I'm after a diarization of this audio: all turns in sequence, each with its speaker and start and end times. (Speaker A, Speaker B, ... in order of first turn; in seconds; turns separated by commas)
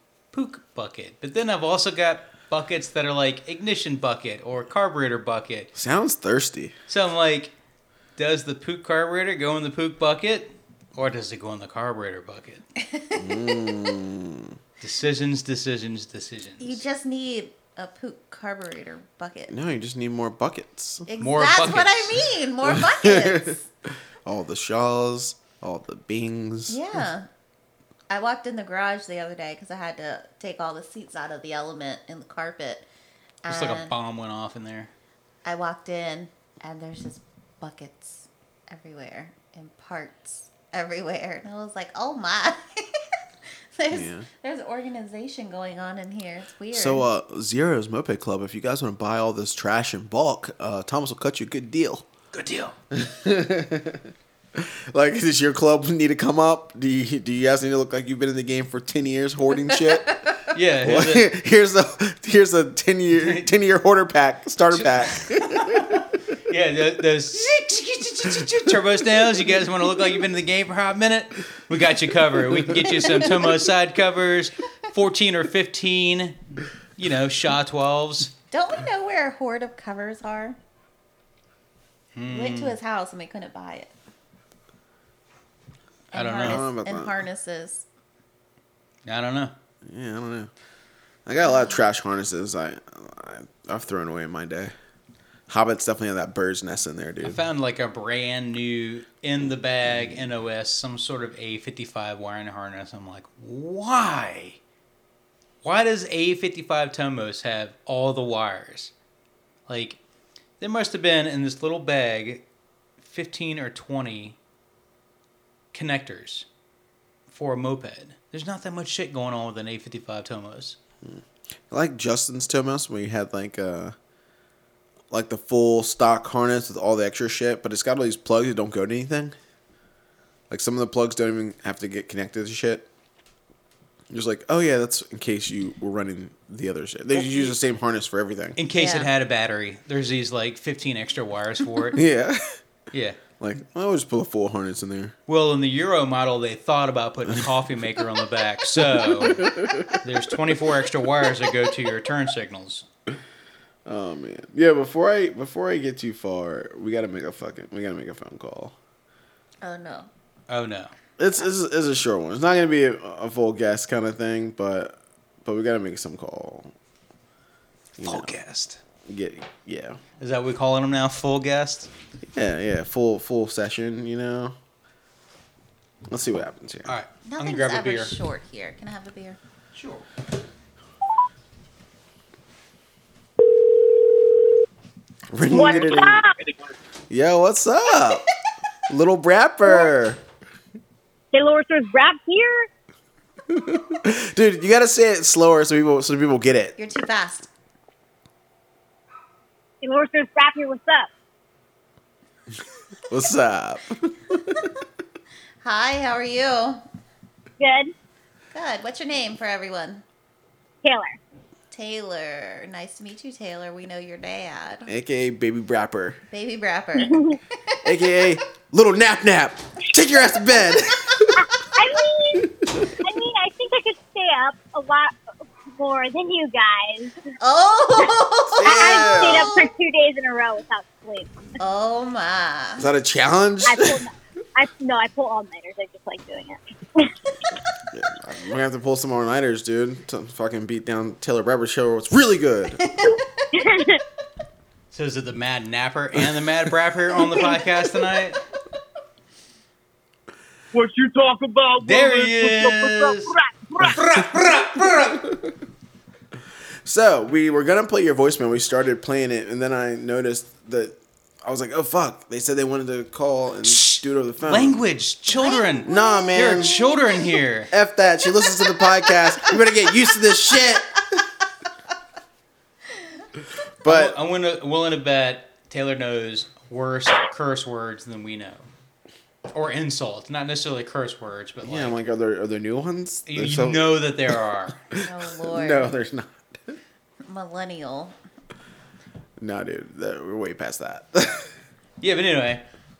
Speaker A: 0.3-5.7, Speaker B: 5.7-6.7, Speaker A: 6.9-7.5, Speaker A: 8.2-12.7, Speaker C: 12.8-13.8, Speaker B: 13.2-14.6, Speaker A: 14.8-16.8, Speaker C: 16.6-19.5, Speaker B: 19.5-21.1, Speaker C: 21.1-23.6, Speaker A: 21.2-22.2, Speaker B: 22.6-23.5, Speaker B: 24.2-27.0, Speaker C: 26.7-27.3, Speaker C: 28.1-32.9, Speaker C: 33.4-33.9, Speaker A: 33.5-34.9, Speaker C: 35.4-42.9, Speaker C: 43.8-47.1, Speaker B: 43.9-44.3, Speaker B: 46.7-52.1, Speaker A: 52.3-52.7, Speaker B: 52.9-60.3, Speaker A: 60.5-61.3, Speaker B: 60.8-66.0, Speaker A: 63.1-63.5, Speaker A: 64.7-78.3, Speaker C: 78.5-80.6, Speaker A: 82.1-82.8, Speaker C: 82.3-83.9, Speaker C: 86.1-87.8, Speaker A: 86.1-86.6, Speaker B: 86.4-87.2, Speaker A: 89.0-89.5, Speaker B: 89.8-90.5, Speaker B: 91.2-94.7, Speaker C: 91.5-91.8, Speaker B: 95.5-97.4, Speaker A: 97.2-104.6, Speaker A: 105.6-108.9, Speaker A: 109.7-110.0, Speaker A: 110.6-112.4, Speaker A: 113.0-114.4, Speaker A: 115.7-116.5, Speaker A: 117.3-120.8, Speaker B: 121.0-123.9, Speaker B: 125.1-129.3, Speaker B: 130.5-132.9, Speaker B: 134.1-138.6, Speaker A: 138.6-142.0, Speaker C: 138.8-139.1, Speaker B: 141.9-142.4, Speaker A: 142.9-143.2, Speaker B: 143.4-145.1, Speaker A: 145.3-152.8, Speaker B: 148.7-150.1, Speaker B: 153.8-158.7, Speaker C: 159.6-160.1, Speaker A: 160.5-160.9, Speaker B: 161.2-166.7, Speaker B: 168.0-168.3, Speaker A: 168.0-168.8, Speaker B: 169.1-170.0, Speaker A: 170.2-171.9, Speaker B: 172.2-174.6, Speaker B: 176.1-176.9, Speaker A: 176.9-178.1, Speaker C: 177.2-179.4, Speaker A: 179.7-180.1, Speaker B: 185.3-186.2, Speaker D: 185.5-186.3, Speaker E: 185.6-186.7, Speaker B: 187.1-188.2, Speaker B: 188.9-190.2, Speaker D: 191.3-192.7, Speaker B: 193.5-196.8, Speaker C: 196.8-197.5, Speaker D: 199.8-201.1, Speaker B: 203.1-204.6, Speaker C: 205.6-206.8, Speaker D: 207.6-207.9, Speaker C: 208.5-210.0, Speaker D: 210.8-211.2, Speaker C: 211.7-214.9, Speaker B: 214.9-216.2, Speaker C: 216.3-217.8, Speaker D: 217.0-217.4, Speaker B: 217.8-221.4, Speaker D: 221.6-225.2, Speaker D: 225.7-227.1, Speaker C: 227.4-229.7, Speaker B: 228.6-229.5, Speaker D: 228.6-231.5, Speaker C: 231.6-232.9, Speaker B: 232.8-234.0, Speaker D: 233.7-237.1, Speaker B: 237.9-242.8, Speaker C: 242.8-243.4, Speaker D: 243.5-244.0, Speaker A: 244.9-248.4, Speaker E: 250.7-254.2, Speaker A: 251.8-255.3, Speaker B: 254.8-255.4, Speaker B: 256.8-264.8, Speaker A: 263.6-267.7, Speaker C: 265.3-267.1, Speaker B: 265.8-266.7, Speaker B: 267.7-271.2, Speaker B: 273.8-274.2, Speaker A: 273.8-278.7, Speaker A: 279.5-281.9, Speaker B: 281.6-284.4, Speaker A: 283.3-284.8, Speaker C: 284.9-285.9, Speaker B: 284.9-286.8, Speaker C: 287.2-288.1, Speaker B: 289.4-291.5, Speaker A: 292.0-292.6